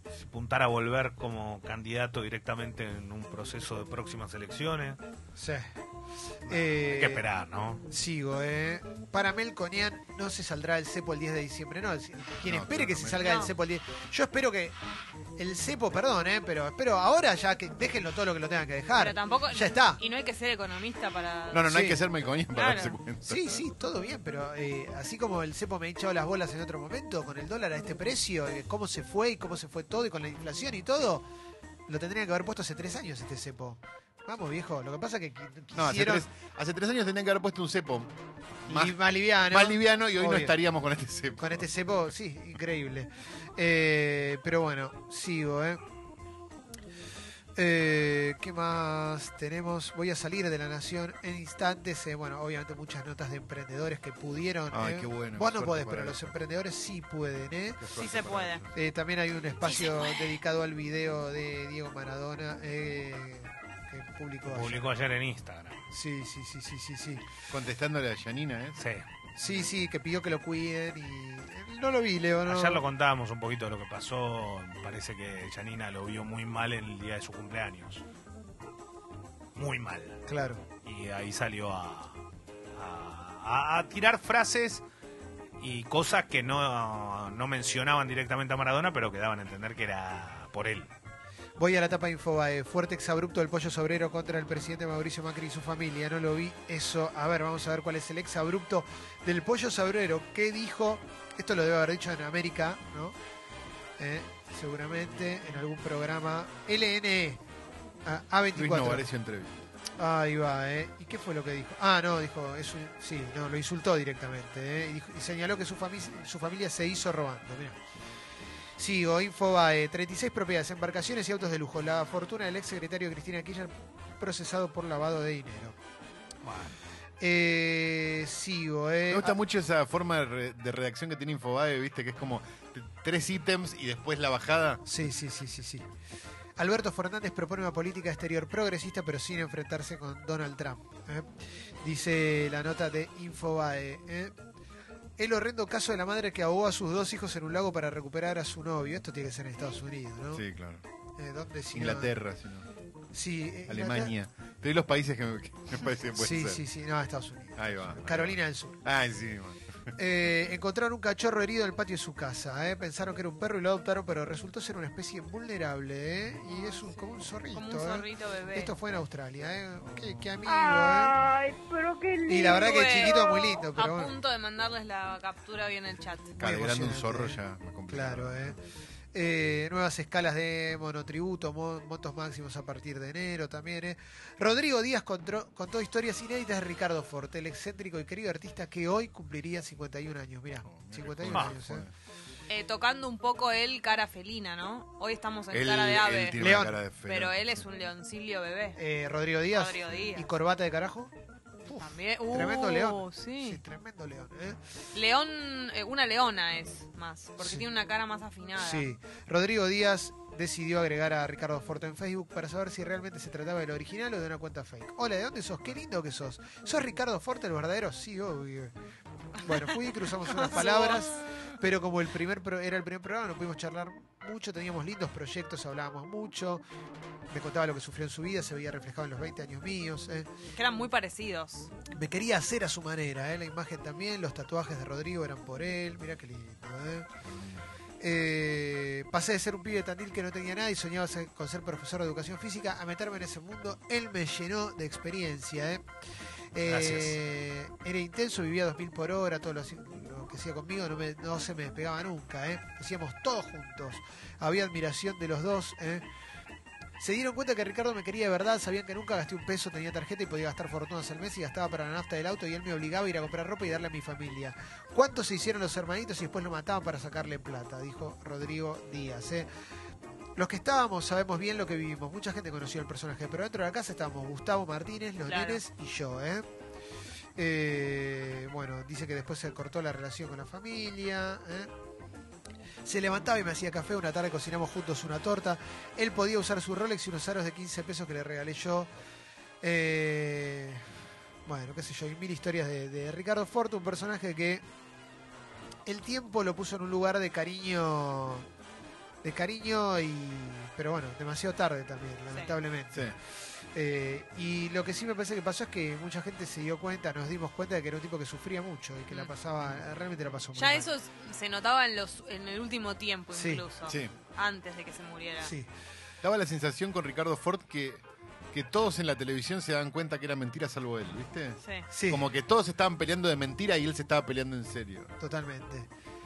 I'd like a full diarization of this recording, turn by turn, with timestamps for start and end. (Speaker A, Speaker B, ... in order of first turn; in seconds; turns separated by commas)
Speaker A: 0.2-5.0, Speaker B: 5.4-5.7, Speaker B: 6.5-7.2, Speaker A: 6.7-7.8, Speaker B: 7.9-14.7, Speaker C: 12.4-13.3, Speaker D: 13.2-13.5, Speaker B: 15.4-20.0, Speaker D: 18.9-21.7, Speaker C: 21.5-23.6, Speaker B: 21.7-22.0, Speaker D: 22.5-22.9, Speaker B: 23.3-31.2, Speaker B: 31.9-36.2, Speaker C: 35.7-38.1, Speaker C: 38.6-41.7, Speaker B: 38.7-40.5, Speaker B: 41.4-45.8, Speaker B: 47.5-57.8, Speaker C: 54.7-56.3, Speaker C: 57.8-58.7, Speaker D: 57.9-58.6, Speaker B: 58.7-64.9, Speaker D: 59.6-60.4, Speaker A: 64.5-65.8, Speaker B: 65.9-67.2, Speaker C: 67.5-68.8, Speaker A: 68.8-69.0, Speaker B: 69.4-72.8, Speaker A: 72.5-78.0, Speaker A: 79.5-80.2, Speaker B: 80.3-80.6, Speaker A: 80.8-82.2, Speaker A: 82.8-84.8, Speaker A: 85.6-90.9, Speaker B: 91.6-103.2, Speaker B: 104.0-107.4, Speaker B: 108.0-109.0, Speaker C: 108.5-109.6, Speaker B: 110.0-117.8, Speaker B: 118.8-125.7, Speaker A: 126.4-126.8, Speaker B: 127.2-129.3, Speaker C: 129.1-134.8, Speaker B: 134.8-135.8, Speaker B: 136.6-141.3, Speaker B: 141.8-144.3, Speaker B: 145.2-150.4, Speaker C: 150.3-150.8, Speaker B: 151.2-152.1, Speaker C: 151.7-152.7, Speaker B: 153.1-154.1, Speaker C: 153.7-156.6, Speaker B: 156.1-158.8, Speaker C: 157.6-159.6, Speaker B: 159.9-171.1, Speaker D: 166.5-168.7, Speaker D: 170.4-176.3, Speaker B: 172.3-174.1, Speaker C: 176.4-178.5, Speaker B: 176.4-178.6, Speaker B: 179.1-191.9, Speaker C: 190.7-191.9, Speaker A: 191.3-191.5, Speaker D: 192.5-196.4, Speaker C: 195.5-197.6, Speaker B: 196.4-196.8, Speaker D: 197.0-198.8, Speaker B: 198.8-201.1, Speaker D: 199.5-200.3, Speaker D: 201.7-203.6, Speaker B: 202.3-204.6, Speaker D: 204.9-208.9, Speaker B: 207.4-207.7, Speaker B: 208.6-218.7, Speaker B: 219.4-226.6, Speaker D: 220.2-221.2, Speaker B: 227.3-230.3, Speaker D: 230.5-231.7, Speaker B: 231.9-237.1, Speaker C: 237.2-237.6, Speaker B: 238.0-245.8, Speaker B: 246.5-256.0, Speaker A: 246.6-247.2, Speaker B: 257.0-269.5, Speaker B: 270.4-276.4, Speaker D: 275.2-275.6, Speaker B: 277.4-281.7, Speaker B: 282.8-288.9, Speaker B: 289.6-290.8, Speaker B: 291.4-294.6, Speaker B: 295.9-298.5, Speaker B: 299.2-303.1, Speaker B: 303.7-310.9, Speaker D: 310.5-315.5, Speaker B: 313.3-313.6, Speaker C: 313.9-314.1, Speaker B: 315.4-315.7, Speaker C: 316.2-325.1, Speaker B: 321.9-322.2, Speaker B: 325.2-325.9